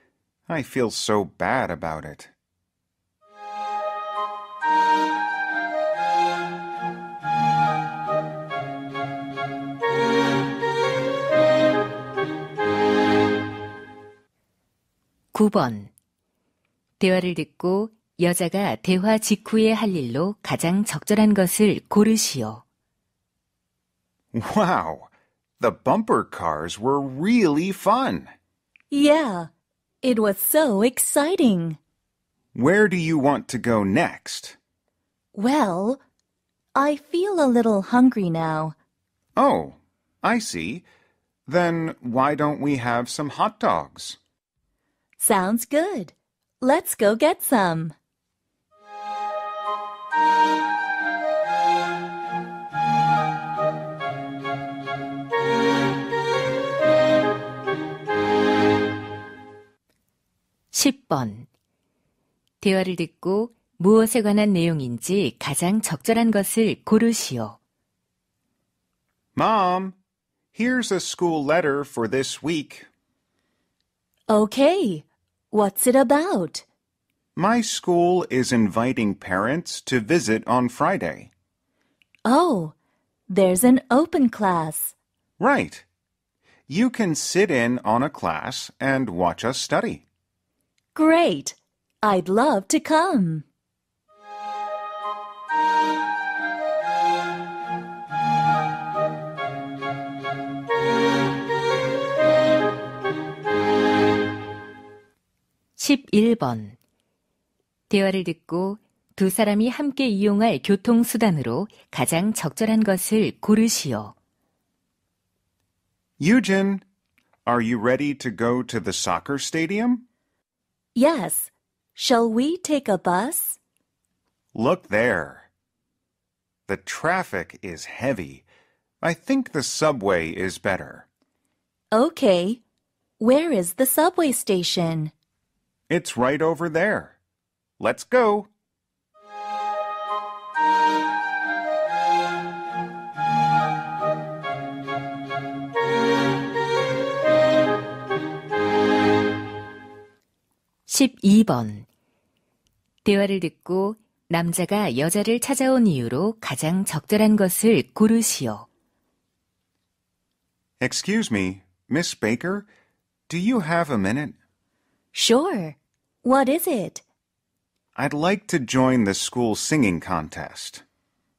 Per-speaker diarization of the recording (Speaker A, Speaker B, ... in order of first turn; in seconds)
Speaker A: 0.5-2.3, 24.3-28.3, 32.5-34.6, 39.4-40.9, 41.5-44.2, 69.3-70.0, 70.5-72.9, 77.3-81.3, 85.4-85.8, 86.7-90.0, 116.2-116.8, 117.5-120.0, 124.5-125.5, 126.7-128.4, 129.0-131.1, 135.9-137.2, 137.8-138.5, 160.8-162.7, 163.3-164.3, 167.9-170.8
Speaker B: 15.3-15.9, 17.0-22.6, 60.7-61.5, 62.6-67.6, 105.8-106.8, 107.9-114.1, 150.9-151.8, 153.0-158.7
Speaker C: 28.9-29.5, 30.0-31.8, 35.3-36.0, 36.7-38.7, 45.2-47.9, 74.3-76.6, 82.2-82.7, 83.3-84.9, 90.9-93.4, 121.0-123.6, 131.9-132.6, 133.2-135.1, 165.1-167.0